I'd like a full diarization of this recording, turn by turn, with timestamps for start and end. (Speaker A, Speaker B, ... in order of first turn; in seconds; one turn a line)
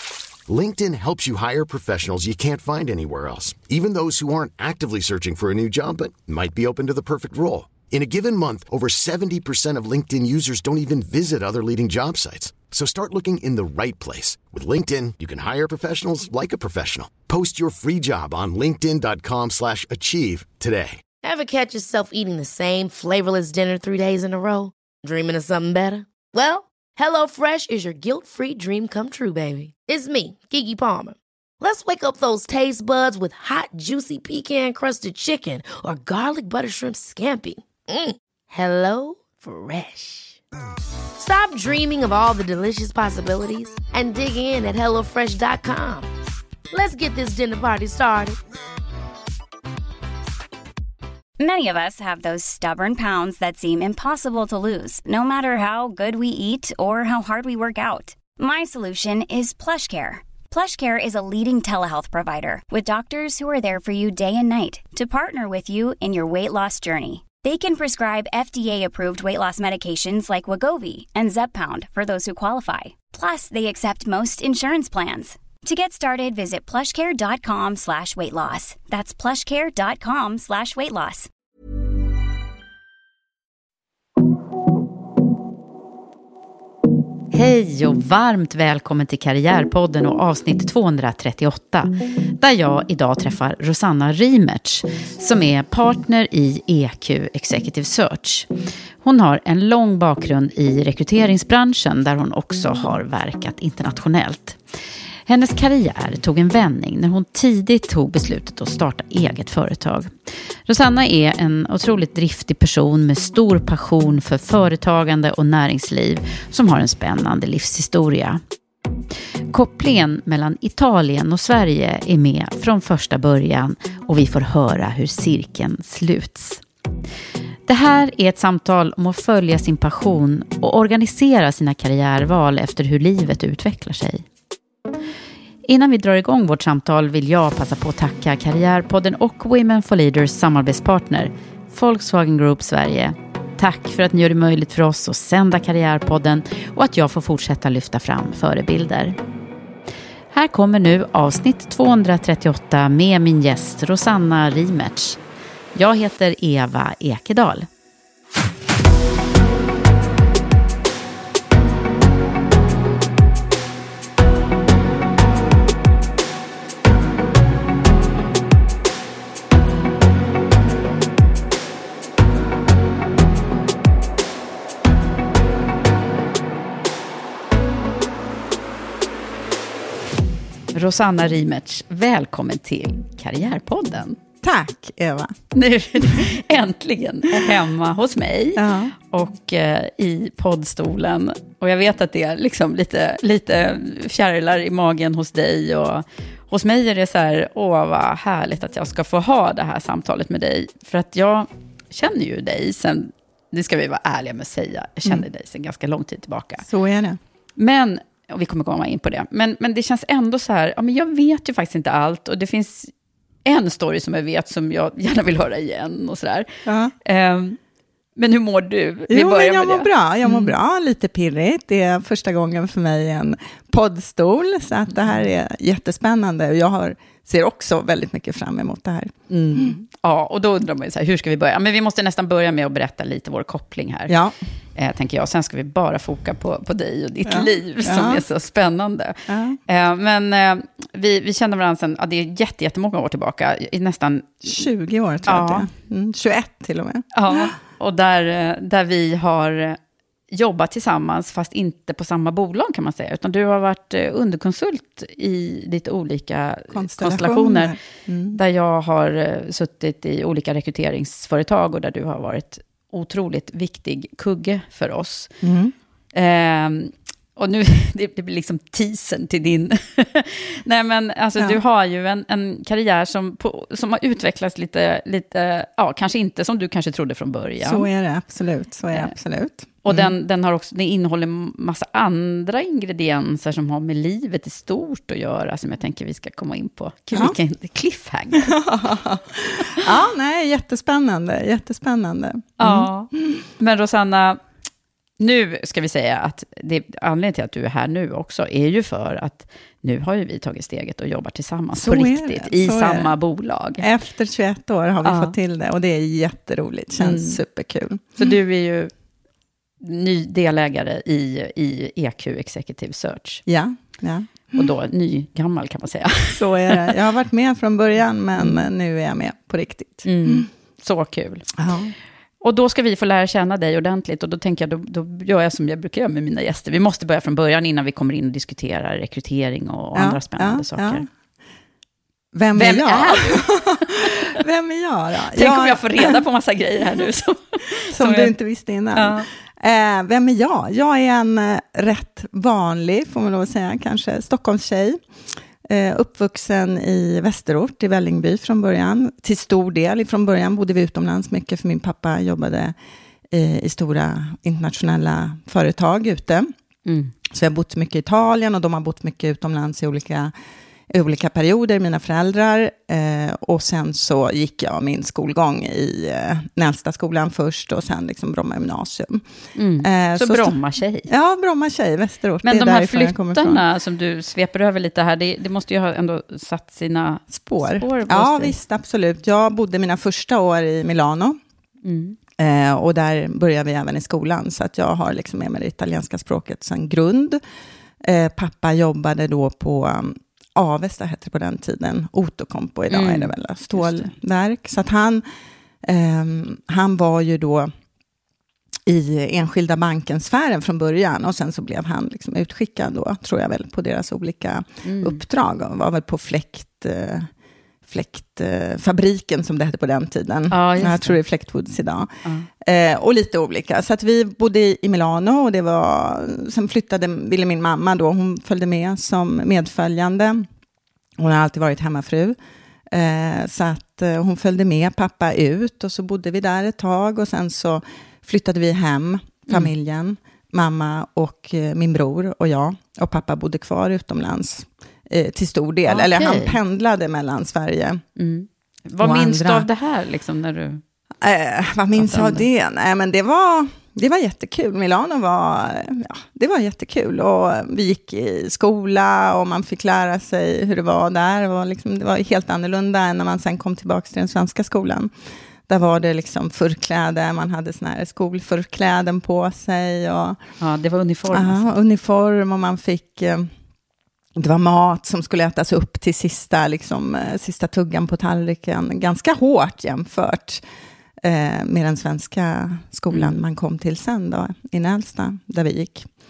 Speaker A: 0.5-21.0
Speaker B: 21.2-40.4
Speaker B: 41.2-46.1
Speaker B: 46.7-48.4
Speaker C: 51.4-81.3
Speaker D: 87.3-98.5
Speaker D: 99.0-104.6
Speaker D: 105.3-110.1
Speaker D: 110.7-118.4
Speaker D: 119.5-126.6
Speaker D: 127.7-134.2
Speaker D: 135.7-149.2
Speaker D: 150.3-155.2
Speaker D: 155.7-157.7
Speaker D: 180.7-184.2
Speaker E: 184.4-185.3
Speaker D: 185.5-206.6
Speaker E: 188.6-188.9
Speaker E: 206.6-207.2
Speaker D: 207.6-212.9
Speaker D: 213.4-216.5
Speaker E: 216.7-216.9
Speaker D: 217.0-217.6
Speaker D: 218.2-220.5
Speaker E: 219.1-229.8
Speaker D: 229.3-234.1
Speaker E: 234.1-234.4
Speaker D: 234.8-244.5
Speaker E: 237.2-238.2
Speaker E: 239.3-239.6
Speaker E: 244.4-247.4
Speaker D: 245.2-245.7
Speaker D: 247.1-249.8
Speaker D: 250.3-257.8
Speaker E: 256.7-258.4
Speaker D: 258.3-265.3
Speaker E: 265.4-265.7
Speaker D: 266.1-277.9
Speaker E: 277.6-280.1
Speaker D: 279.8-288.6
Speaker E: 288.4-292.9
Speaker D: 292.6-294.4
Speaker D: 295.2-303.8
Speaker E: 301.7-303.1
Speaker E: 303.8-308.3
Speaker D: 305.0-305.3
Speaker D: 307.0-307.4
Speaker D: 308.2-308.9
Speaker D: 309.8-313.4
Speaker E: 313.5-314.7
Speaker D: 314.5-316.9
Speaker E: 316.3-320.5
Speaker D: 318.4-318.7
Speaker D: 320.1-321.5
Speaker E: 321.6-321.9
Speaker D: 322.4-331.1
Speaker E: 329.9-331.1
Speaker E: 332.3-336.2
Speaker D: 332.5-334.1
Speaker D: 335.4-338.3
Speaker E: 337.9-345.0
Speaker D: 338.9-339.2
Speaker E: 345.6-352.7
Speaker E: 353.3-356.5
Speaker D: 356.9-357.1
Speaker E: 357.3-360.3
Speaker E: 360.9-369.2
Speaker D: 369.6-371.1
Speaker E: 369.8-370.5
Speaker E: 371.1-373.6
Speaker D: 372.4-378.5
Speaker E: 377.3-381.4
Speaker D: 381.8-382.2
Speaker E: 382.4-387.4
Speaker E: 388.0-395.2
Speaker D: 392.9-394.1
Speaker E: 395.8-397.7
Speaker E: 398.9-407.3
Speaker D: 404.8-405.2
Speaker E: 407.9-412.1
Speaker D: 410.5-411.2
Speaker E: 412.6-420.5
Speaker E: 421.2-422.4
Speaker E: 422.9-438.0
Speaker D: 435.9-436.6
Speaker D: 438.2-440.8
Speaker E: 439.0-439.7
Speaker E: 441.2-455.1
Speaker D: 442.0-442.4
Speaker E: 455.7-460.4
Speaker D: 460.6-461.6
Speaker E: 461.3-463.5
Speaker E: 464.4-470.6
Speaker E: 471.2-476.1
Speaker D: 473.1-473.4